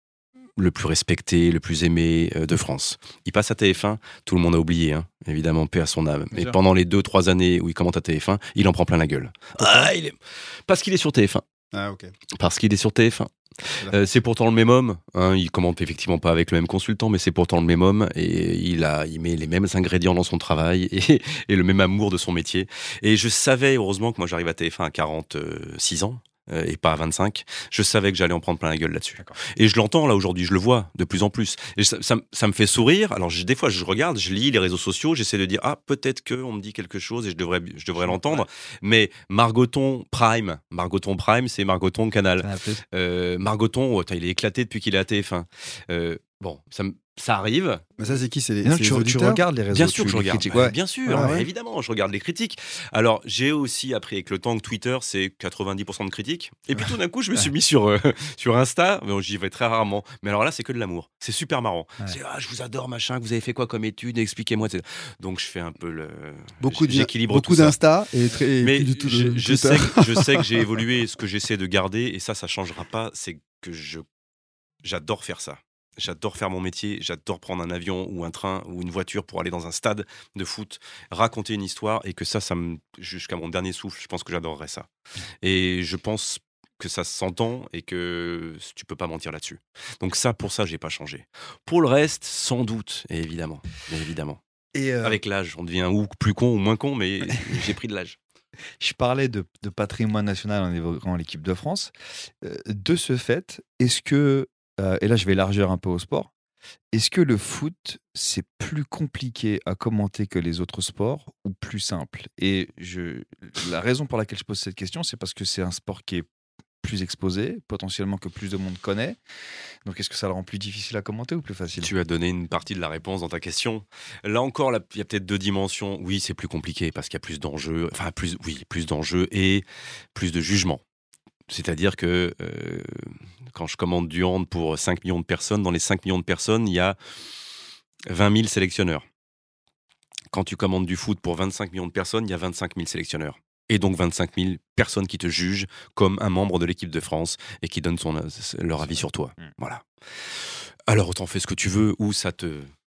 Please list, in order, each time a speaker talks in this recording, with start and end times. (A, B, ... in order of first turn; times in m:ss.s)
0:00.6-0:11.4 A
0:11.7-0:12.1 B
0:12.4-0:47.9 A
0:13.8-0:14.1 B
0:38.0-0:38.5 C
0:42.4-0:42.8 C
0:48.0-0:49.4 B
0:48.6-0:51.4 C
0:49.7-1:07.8 A
0:51.1-0:51.4 B
1:06.6-1:10.4 B
1:08.6-1:14.0 A
1:14.8-1:24.9 A
1:25.4-1:34.4 A
1:34.7-1:35.2 C
1:35.0-1:38.2 A
1:38.8-1:46.3 C
1:46.9-1:56.2 C
1:56.8-1:59.2 C
1:59.8-2:01.9 C
2:01.8-2:10.8 A
2:11.5-2:17.0 A
2:18.1-2:19.0 A
2:20.3-2:32.7 A
2:28.8-2:29.5 C